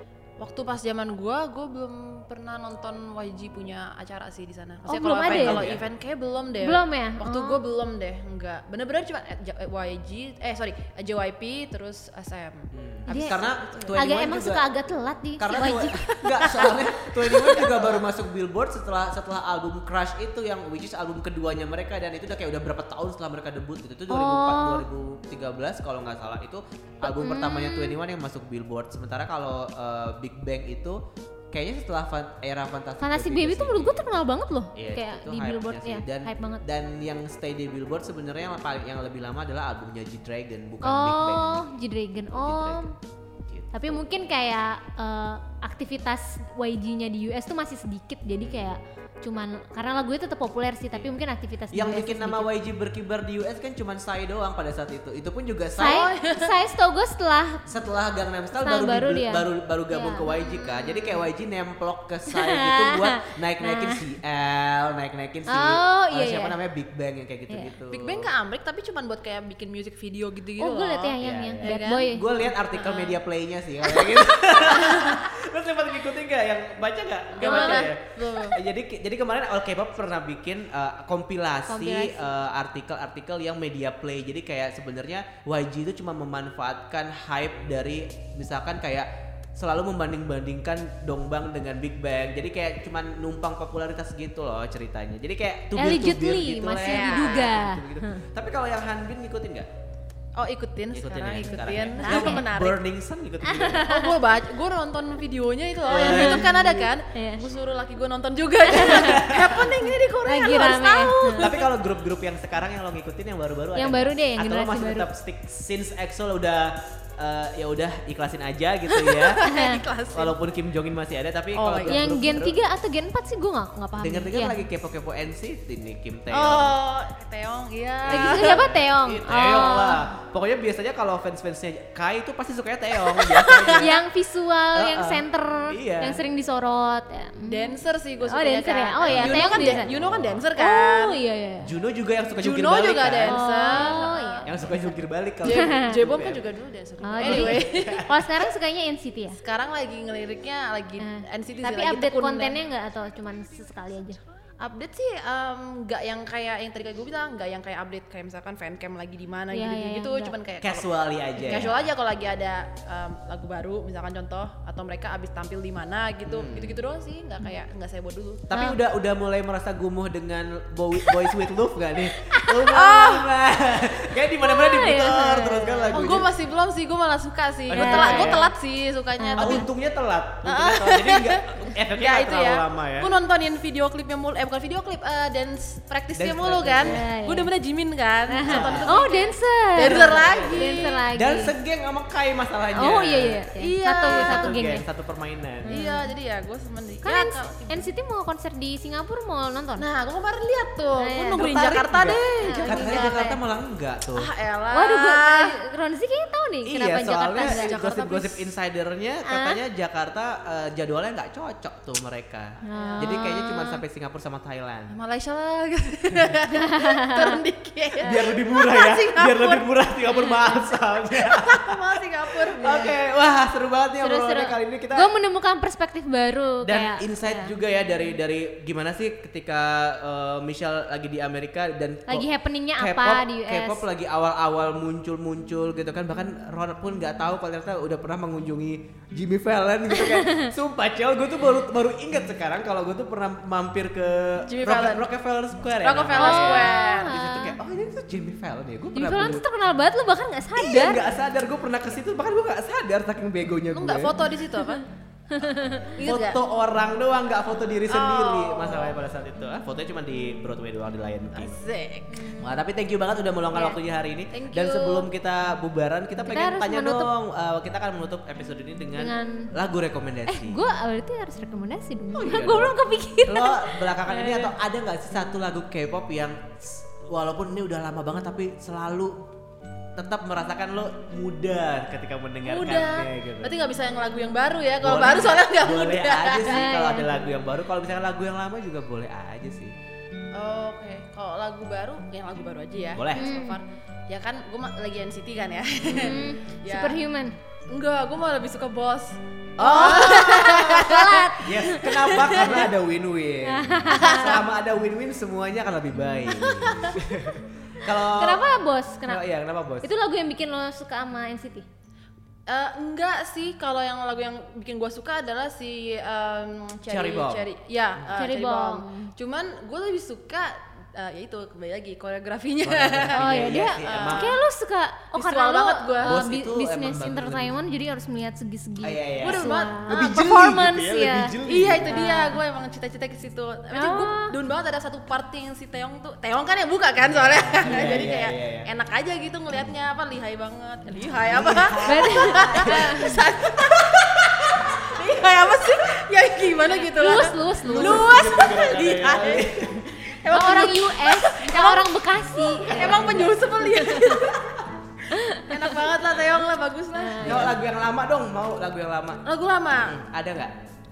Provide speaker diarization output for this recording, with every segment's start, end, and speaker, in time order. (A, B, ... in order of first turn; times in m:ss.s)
0:00.4-0:14.0 A
0:04.9-0:05.7 B
0:05.2-0:05.8 C
0:06.6-0:07.6 B
0:12.7-0:14.6 C
0:13.1-0:13.4 B
0:13.9-0:16.8 B
0:15.4-0:31.0 C
0:16.0-0:16.7 A
0:17.2-0:18.0 A
0:17.4-0:17.8 B
0:24.1-0:24.8 B
0:27.0-0:28.0 B
0:31.5-0:34.0 C
0:33.0-0:36.6 B
0:34.8-0:41.6 C
0:40.8-0:42.9 B
0:42.3-0:42.8 C
0:43.5-0:44.0 C
0:43.7-0:52.5 B
0:48.4-0:48.7 C
0:51.7-0:56.0 C
0:55.8-0:56.5 A
0:55.8-0:57.6 B
0:57.7-1:08.3 C
0:58.6-1:00.3 B
1:00.4-1:00.9 A
1:02.3-1:04.0 B
1:05.5-1:06.6 B
1:07.9-1:13.2 A
1:10.6-1:12.3 B
1:11.2-1:39.7 C
1:14.6-1:15.2 A
1:17.4-1:18.6 A
1:17.4-1:17.9 B
1:21.7-1:22.2 B
1:35.8-1:38.2 B
1:36.8-1:37.5 A
1:40.4-1:42.8 A
1:40.9-1:44.0 C
1:42.0-1:42.4 B
1:43.5-1:44.2 B
1:43.5-1:51.7 A
1:45.9-1:46.8 C
1:45.9-1:46.5 B
1:47.1-1:47.4 B
1:48.7-1:49.2 B
1:48.8-1:49.7 C
1:50.3-1:51.5 B
1:51.4-1:59.4 C
1:53.8-1:55.1 B
1:59.0-2:00.3 A
1:59.5-1:59.8 B
2:00.1-2:02.6 C
2:01.6-2:02.0 A
2:01.9-2:04.6 B
2:04.0-2:06.7 C
2:06.3-2:08.6 A
2:08.0-2:14.0 C
2:08.1-2:10.0 B
2:13.2-2:13.8 A
2:13.6-2:17.8 B
2:14.7-2:16.2 C
2:17.5-2:21.2 A
2:18.3-2:19.9 B
2:19.0-2:20.4 C
2:20.6-2:21.7 B
2:21.6-2:26.4 C
2:22.4-2:24.9 A
2:23.3-2:24.5 B
2:25.4-2:28.0 A
2:25.5-2:25.9 B
2:27.0-2:29.4 B
2:27.2-2:28.2 C
2:29.4-2:32.6 A
2:31.0-2:34.2 B
2:34.6-2:48.5 A
2:39.5-2:40.3 B
2:40.6-2:41.9 C
2:46.3-2:46.8 C
2:48.5-2:56.3 C
2:48.5-2:48.8 B
2:52.3-2:53.1 B
2:52.4-2:53.2 A
2:54.4-2:56.0 B
2:55.9-2:59.7 A
2:57.7-2:58.5 C
2:57.7-2:58.5 B
2:59.2-2:59.6 B
2:59.4-3:03.1 C
3:00.4-3:11.0 A
3:06.2-3:07.0 C
3:06.8-3:07.5 B
3:08.3-3:11.5 B
3:08.4-3:09.0 C
3:09.8-3:13.5 C
3:12.8-3:14.9 B
3:13.6-3:14.6 A
3:14.1-3:15.8 C
3:15.6-3:16.1 B
3:15.7-3:17.9 A
3:17.0-3:19.8 B
3:19.8-3:23.3 A
3:21.0-3:23.4 B
3:21.4-3:24.3 C
3:24.2-3:25.6 A
3:24.7-3:27.7 B
3:26.7-3:34.9 C
3:27.4-3:28.4 A
3:29.3-3:29.6 B
3:32.7-3:33.8 B
3:32.7-3:33.2 A
3:34.9-3:39.7 A
3:38.0-3:45.1 C
3:41.0-3:42.9 A
3:44.0-3:47.5 B
3:46.6-4:09.4 C
3:52.1-3:53.8 B
4:00.0-4:00.5 B
4:04.5-4:05.1 A
4:05.8-4:07.1 A
4:06.2-4:07.6 B
4:08.9-4:11.1 B
4:10.6-4:14.3 C
4:13.7-4:14.9 A
4:15.3-4:16.0 B
4:15.9-4:16.4 A
4:16.0-4:21.6 C
4:17.9-4:19.0 A
4:21.3-4:22.3 A
4:22.2-4:22.5 B
4:22.4-4:30.6 C
4:23.5-4:23.8 B
4:24.3-4:25.1 A
4:26.3-4:27.1 B
4:29.0-4:29.5 B
4:30.3-4:34.5 B
4:32.2-4:39.2 C
4:40.0-4:43.6 C
4:42.4-4:46.6 A
4:44.8-4:49.7 C
4:46.5-4:47.3 B
4:50.4-4:57.0 A
4:52.9-4:53.3 C
4:53.2-4:53.6 B
4:55.9-4:57.4 B
4:57.7-5:02.6 A
4:59.6-5:08.5 C
4:59.6-5:02.7 B
5:03.5-5:04.4 B
5:03.9-5:04.4 A
5:06.3-5:07.0 B
5:08.0-5:09.3 B
5:09.1-5:09.9 C
5:09.8-5:11.7 B
5:12.5-5:24.3 A
5:16.9-5:17.5 C
5:18.2-5:19.1 B
5:22.6-5:24.4 C
5:23.1-5:31.3 B
5:25.2-5:26.2 A
5:26.0-5:27.5 C
5:28.8-5:32.0 C
5:29.2-5:29.8 A
5:31.5-5:57.5 A
5:31.9-5:32.4 B
5:33.7-5:34.3 B
5:37.0-5:38.7 C
5:41.3-5:43.0 C
5:41.9-5:43.2 B
5:46.9-5:48.2 B
5:47.6-5:50.1 C
5:50.3-5:54.2 B
5:52.7-5:53.3 C
5:55.2-5:55.6 B
5:56.9-5:57.6 B
5:57.2-5:59.2 C
5:59.2-6:00.0 A
5:59.8-6:00.6 C